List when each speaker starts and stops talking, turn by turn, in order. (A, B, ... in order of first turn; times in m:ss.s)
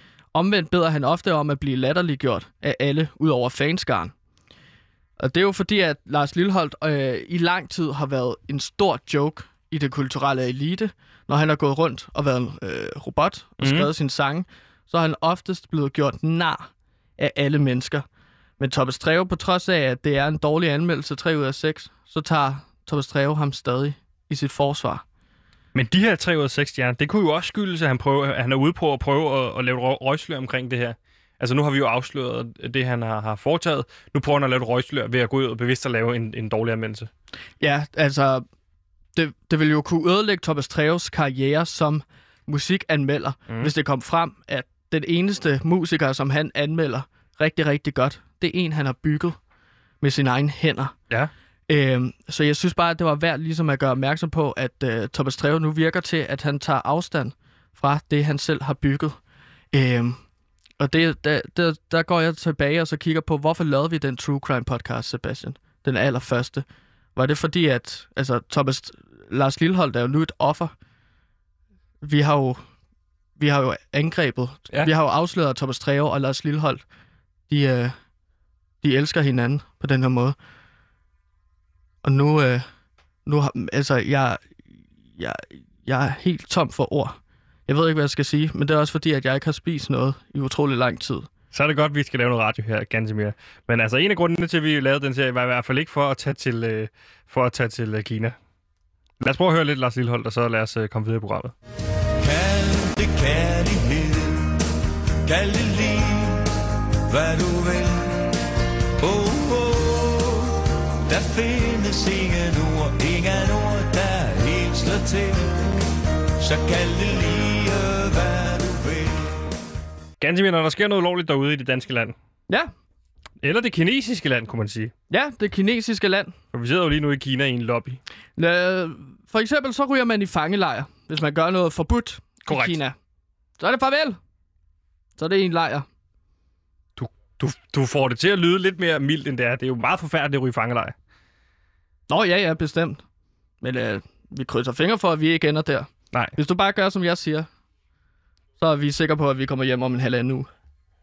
0:00.3-0:04.1 A
0:05.2-0:18.0 A
0:13.6-0:13.9 B
0:18.6-0:25.0 A
0:25.7-0:37.1 B
0:37.6-0:38.4 A
0:39.1-0:49.4 A
0:50.0-0:50.9 A
0:51.7-0:59.2 A
0:59.7-1:00.2 A
1:00.8-1:06.6 A
1:07.2-1:10.7 A
1:12.0-1:12.6 A
1:13.4-1:16.8 A
1:17.5-1:17.9 A
1:18.8-1:20.4 A
1:22.0-1:22.6 A
1:23.2-1:24.4 A
1:25.2-1:31.3 A
1:31.5-1:38.4 B
1:39.2-1:41.5 B
1:42.2-1:44.5 C
1:45.2-1:46.5 C
1:47.1-1:48.2 C
1:49.0-1:55.6 C
1:56.4-1:59.3 C
2:00.2-2:02.2 B
2:03.4-2:04.9 B
2:05.1-2:06.3 A
2:06.5-2:08.0 B
2:08.4-2:13.0 A
2:12.4-2:12.8 B
2:13.6-2:14.2 A
2:15.2-2:15.9 A
2:17.0-2:20.9 B
2:22.1-2:23.0 A
2:23.6-2:27.5 A
2:28.6-2:30.5 A